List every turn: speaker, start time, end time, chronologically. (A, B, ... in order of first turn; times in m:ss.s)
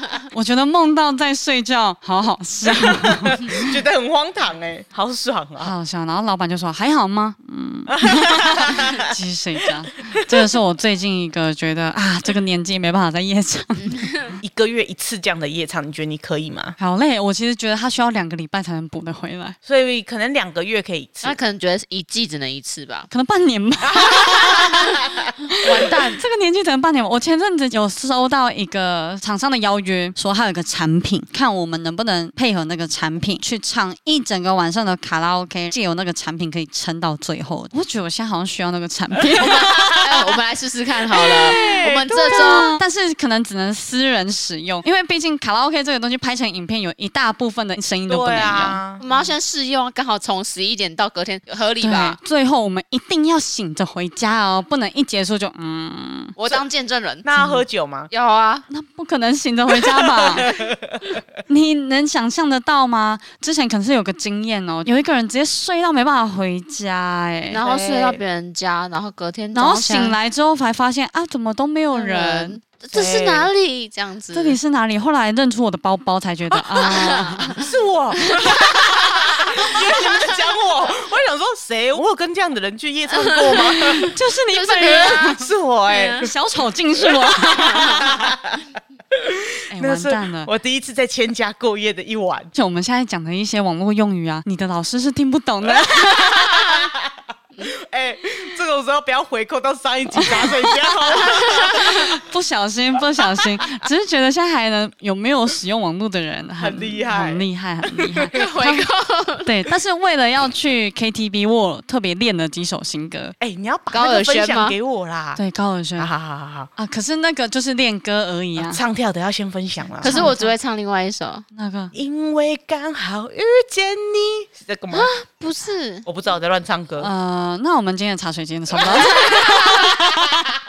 0:00.3-0:03.8 A
0:02.8-0:05.7 B
0:05.6-0:14.2 A
0:07.9-0:09.0 B
0:13.8-0:14.3 C
0:14.4-0:16.8 B
0:16.8-0:19.6 A
0:19.7-0:21.4 B
0:21.2-0:23.1 C
0:23.1-0:24.9 A
0:23.9-0:24.8 B
0:25.6-0:26.2 C
0:25.7-0:40.3 A
0:39.4-0:40.1 B
0:39.6-0:42.7 C
0:41.2-0:42.8 B
0:41.4-0:49.4 A
0:48.1-0:49.0 B
0:49.0-0:52.2 C
0:51.8-0:56.4 A
0:56.4-0:57.3 C
0:57.2-0:58.1 B
0:57.4-0:57.6 A
0:58.1-0:58.6 C
0:58.7-1:00.5 A
0:59.9-1:01.2 B
1:01.5-1:07.6 A
1:07.5-1:10.2 C
1:07.6-1:08.2 B
1:09.5-1:12.6 A
1:11.9-1:14.6 C
1:12.9-1:13.5 B
1:14.3-1:17.6 A
1:16.5-1:17.6 C
1:17.6-1:24.1 B
1:18.4-1:18.9 C
1:23.4-1:25.3 C
1:23.5-1:25.5 A
1:24.8-1:26.3 B
1:25.9-1:26.3 C
1:26.2-1:28.3 A
1:27.2-1:28.6 B
1:29.2-1:32.5 B
1:29.7-1:30.5 A
1:32.5-1:36.6 A
1:35.9-1:37.0 B
1:37.6-1:42.1 B
1:40.1-1:48.9 A
1:46.6-1:48.3 B
1:48.3-1:49.6 C
1:49.4-1:53.4 A
1:53.4-1:55.4 B
1:53.9-1:54.8 C
1:55.4-1:56.1 A
1:56.0-1:56.7 B
1:56.8-1:58.8 A
1:58.6-2:00.3 B
2:00.0-2:01.4 C
2:00.0-2:00.6 A
2:01.5-2:01.9 A
2:01.9-2:05.1 B
2:04.9-2:06.1 C
2:06.1-2:07.1 B
2:07.0-2:10.5 A